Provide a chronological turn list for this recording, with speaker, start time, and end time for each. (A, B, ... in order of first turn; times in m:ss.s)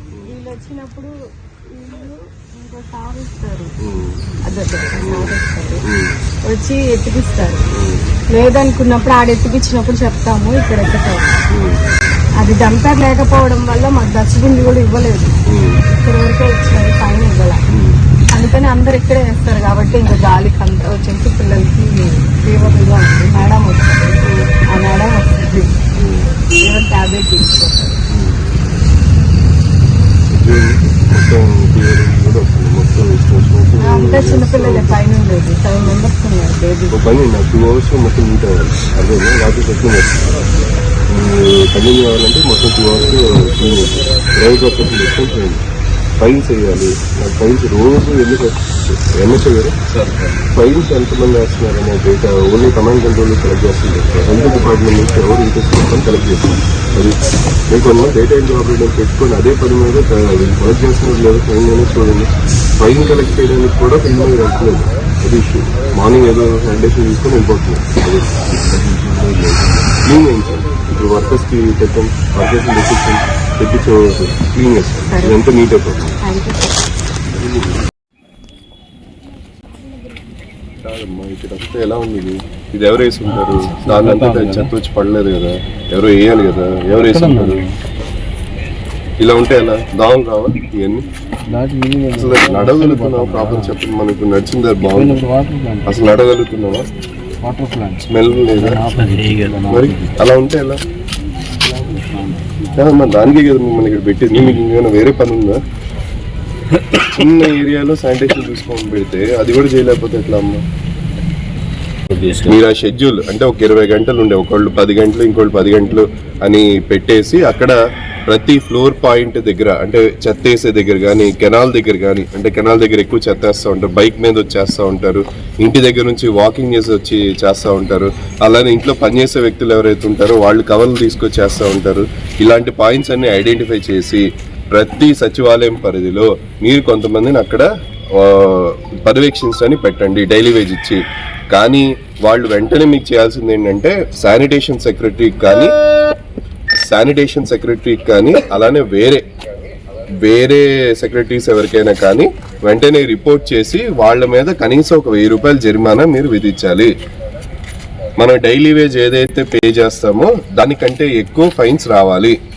0:00.3-0:01.1 A
0:01.7-0:03.8 A
0:03.8-0:04.2 B
0:04.5-0:05.8 A
0:05.0-0:05.4 B
0:05.9-0:06.2 B
0:06.5-0:07.7 A
0:07.7-0:08.1 B
0:08.3-0:11.4 A
0:11.5-0:11.8 B
0:12.4-0:17.6 A
0:15.5-0:15.8 B
0:17.7-0:18.0 B
0:18.3-0:24.2 A
0:24.2-0:24.5 B
0:24.7-0:25.8 A
0:26.0-0:26.3 B
0:26.6-0:28.0 A
0:28.1-0:28.6 B
0:30.3-0:35.0 B
0:33.8-0:37.2 A
0:36.9-0:40.4 B
0:41.1-0:45.6 B
0:46.2-1:16.2 B
1:15.1-1:15.5 A
1:16.2-1:16.9 A
1:17.3-1:17.8 B
1:20.8-1:27.6 B
1:23.3-1:24.7 C
1:27.0-1:27.8 C
1:29.2-1:31.0 B
1:31.5-1:33.8 C
1:32.2-1:35.2 B
1:34.8-1:36.0 C
1:35.9-1:36.8 B
1:37.4-1:40.2 C
1:38.1-1:38.8 B
1:39.7-1:40.8 B
1:41.8-1:43.0 C
1:42.8-1:45.6 B
1:46.9-1:50.6 B
1:52.1-1:52.4 C
1:52.3-2:25.7 B
2:26.9-2:29.2 B
2:30.2-2:36.9 B
2:38.2-2:42.4 B